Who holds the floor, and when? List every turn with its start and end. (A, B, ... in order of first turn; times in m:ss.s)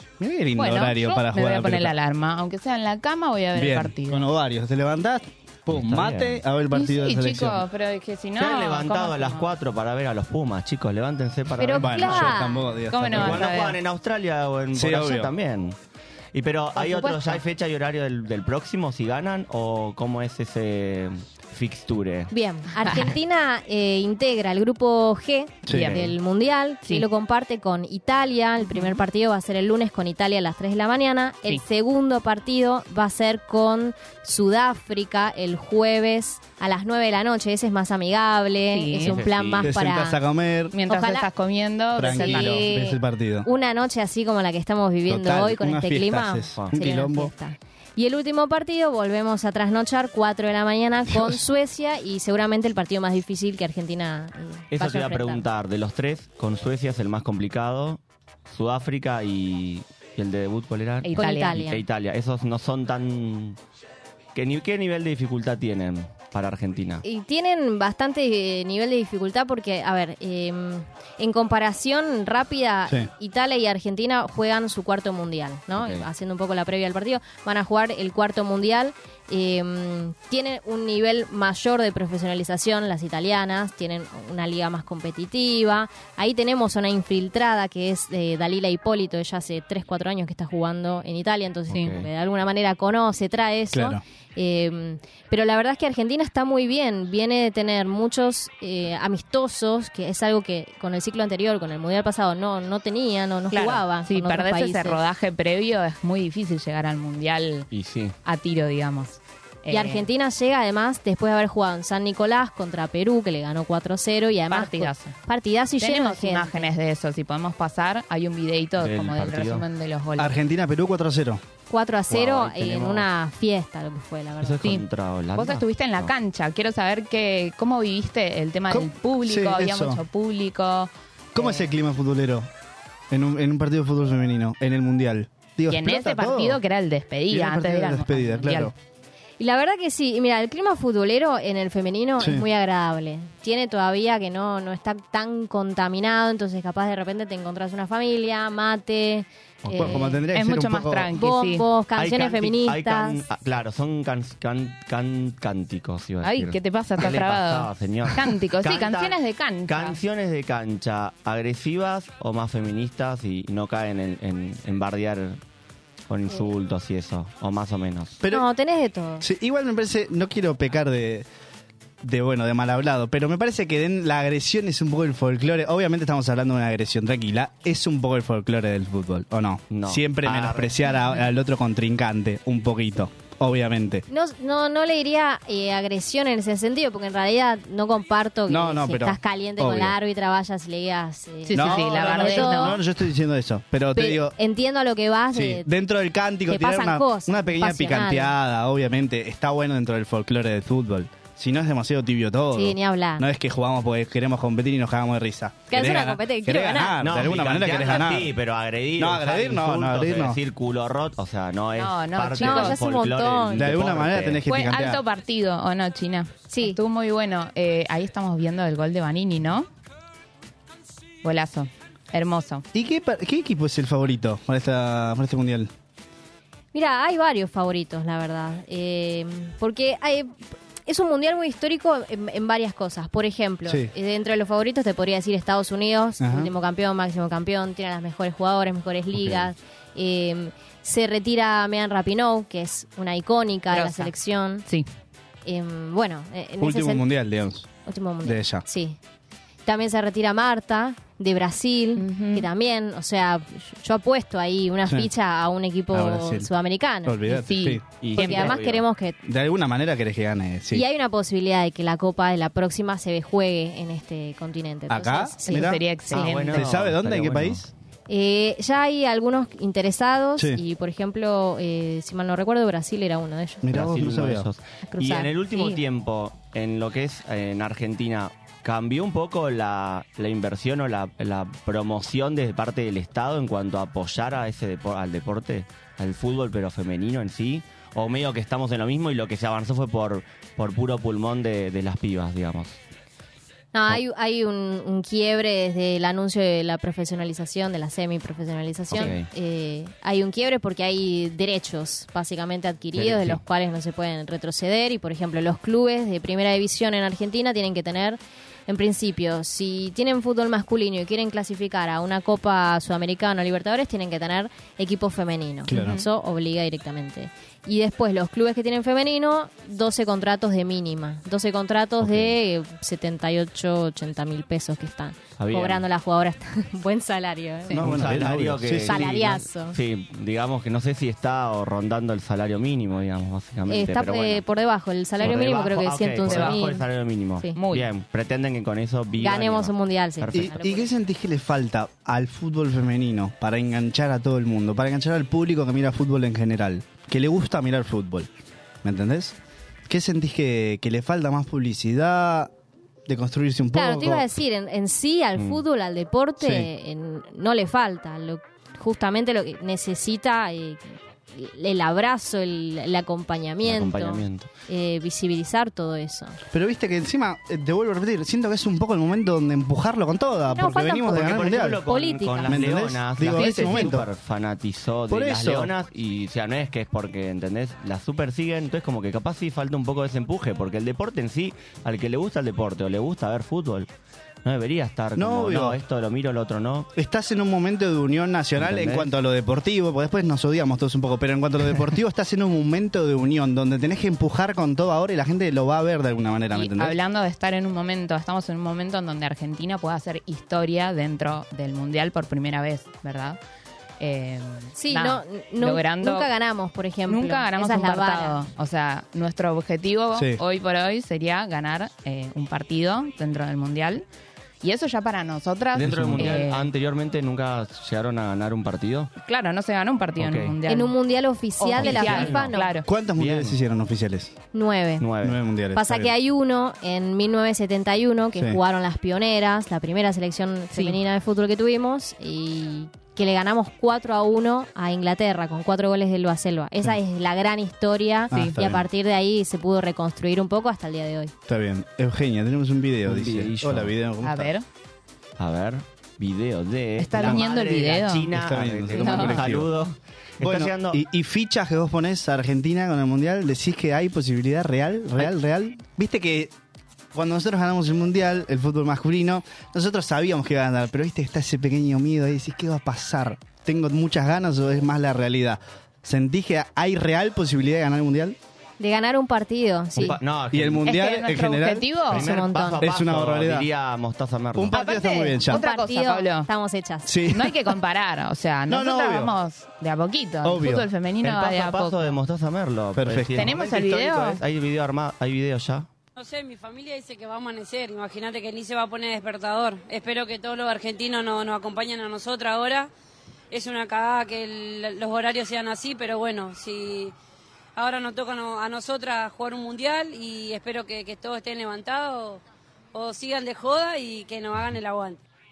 0:00.2-0:02.0 A
0:00.6-0:04.3 B
0:03.5-0:07.7 A
0:05.7-0:06.4 C
0:06.7-0:09.5 B
0:08.4-0:12.4 C
0:11.6-0:12.7 D
0:11.7-0:13.5 A
0:12.9-0:13.8 B
0:13.1-0:15.8 C
0:14.7-0:15.3 A
0:16.3-0:22.3 C
0:16.8-0:17.4 B
0:22.3-0:40.2 D
0:22.7-0:23.2 B
0:25.7-0:26.0 A
0:25.7-0:26.1 B
0:25.8-0:26.1 C
0:28.6-0:29.0 B
0:38.7-0:39.2 B
0:39.0-0:39.7 C
0:39.6-0:40.8 A
0:40.7-0:42.7 B
0:42.0-0:43.5 A
0:42.0-0:55.4 D
0:45.1-0:47.3 A
0:51.1-0:51.4 A
0:54.7-1:03.6 C
1:01.0-1:01.7 B
1:01.2-1:01.8 D
1:04.3-1:07.0 C
1:07.0-1:45.0 D
1:15.8-1:16.1 C
1:31.7-1:32.1 C
1:33.7-1:34.0 A
1:43.5-1:47.7 B
1:47.7-1:48.2 C
1:48.2-1:50.1 B
1:49.7-1:56.7 D
1:54.5-1:55.2 B
1:55.8-2:00.4 B
1:58.8-1:59.7 C
2:00.2-2:01.4 A
2:01.7-2:04.6 D
2:02.1-2:03.1 C
2:04.4-2:06.1 C
2:04.6-2:11.7 B
2:08.7-2:10.0 A
2:11.3-2:12.5 A
2:13.1-2:16.6 A
2:15.7-2:18.7 B
2:17.3-2:18.7 A
2:19.4-2:30.2 D
2:22.2-2:22.5 A
2:29.6-2:31.2 A
2:29.8-2:31.7 B
2:31.1-2:33.2 D
2:32.0-2:45.4 C
2:36.2-2:40.0 B
2:46.1-2:48.2 C
2:48.3-2:49.3 D
2:49.2-2:51.3 A
2:52.0-3:04.0 A
2:59.7-3:00.7 C
3:04.1-3:12.8 D
3:08.5-3:10.0 A
3:11.5-3:12.8 B
3:11.5-3:14.4 A
3:14.1-3:15.7 D
3:15.3-3:28.4 A
3:16.5-3:18.3 D
3:22.5-3:23.3 D
3:25.7-3:27.0 D
3:27.0-3:34.4 C
3:29.0-3:30.4 A
3:31.8-3:32.8 B
3:32.4-3:33.7 D
3:33.5-3:35.0 A
3:34.5-3:39.7 B
3:36.5-3:36.8 D
3:41.2-3:42.6 B
3:42.7-3:45.7 A
3:46.7-4:04.7 D
3:56.2-3:56.5 A
3:59.2-3:59.5 C
4:03.7-4:04.1 B
4:05.4-4:07.1 D
4:06.6-4:07.7 A
4:07.8-4:09.0 D
4:08.2-4:08.7 A
4:09.6-4:17.2 D
4:12.0-4:12.5 B
4:15.9-4:16.5 A
4:17.0-4:17.8 A
4:17.2-4:18.6 B
4:18.0-4:18.8 C
4:18.2-4:19.2 D
4:19.2-4:20.8 A
4:20.7-4:25.7 D
4:24.9-4:25.8 A
4:25.5-4:26.7 B
4:26.1-4:27.6 C
4:26.4-4:27.7 A
4:28.1-4:33.7 D
4:33.6-4:34.5 A
4:33.7-4:52.8 C
4:34.9-4:35.8 D
4:53.7-5:27.8 D
4:58.9-4:59.3 C
5:03.0-5:03.4 C
5:15.7-5:16.1 A
5:15.8-5:16.0 B
5:22.0-5:22.4 C
5:25.4-5:25.8 C
5:27.7-5:29.2 A
5:27.7-5:34.4 C
5:28.9-5:29.8 D
5:33.7-5:36.8 D
5:35.2-5:40.6 C
5:36.3-5:36.6 B
5:37.6-5:37.9 B
5:39.2-5:40.9 D
5:40.3-5:48.3 A
5:48.8-5:49.4 A
5:49.9-5:52.5 A
5:53.1-5:54.3 A
5:53.7-6:06.4 D
5:55.4-5:55.6 C
5:56.4-5:56.7 A
6:03.6-6:04.5 C
6:06.5-6:11.8 A
6:10.5-6:11.2 D
6:11.1-6:23.9 C
6:11.8-6:12.7 D
6:12.5-6:14.1 A
6:13.3-6:13.9 B
6:15.1-6:15.7 A
6:24.4-6:26.9 C
6:25.2-6:25.8 A
6:27.0-6:37.0 A
6:28.6-6:29.1 C
6:36.5-6:43.4 B
6:44.0-6:46.3 B
6:44.8-6:48.4 D
6:47.1-6:54.0 B
6:50.1-6:50.4 A
6:54.6-6:56.7 B
6:55.7-6:59.1 C
6:55.8-6:56.4 A
6:59.2-7:01.0 B
7:00.2-7:00.6 C
7:00.7-7:02.8 D
7:01.6-7:02.9 B
7:01.8-7:02.6 C
7:02.8-7:04.4 A
7:03.2-7:03.6 C
7:04.5-7:05.1 D
7:05.0-7:05.4 C
7:05.2-7:06.1 A
7:05.7-7:21.3 D
7:10.7-7:11.0 B
7:18.3-7:18.8 A
7:21.5-7:24.5 A
7:23.1-7:23.9 C
7:24.2-7:24.7 B
7:25.4-7:31.0 C
7:27.0-7:28.3 B
7:27.1-7:27.4 A
7:28.3-7:29.7 A
7:29.0-7:29.4 B
7:30.4-7:36.5 A
7:37.1-7:48.4 A
7:48.8-7:50.2 D
7:50.0-7:50.9 C
7:50.0-7:53.7 A
7:50.8-7:52.2 B
7:52.1-7:54.8 C
7:52.1-7:52.8 D
7:54.6-7:55.6 A
7:54.7-7:56.5 B
7:55.5-7:57.2 D
7:57.1-7:57.7 A
7:57.3-8:02.2 B
7:58.7-7:59.4 A
8:00.4-8:00.9 A
8:01.2-8:05.9 C
8:03.0-8:03.5 A
8:03.4-8:04.4 B
8:06.2-8:12.9 E
8:13.5-8:17.1 E
8:17.8-8:22.4 E
8:22.9-8:25.2 E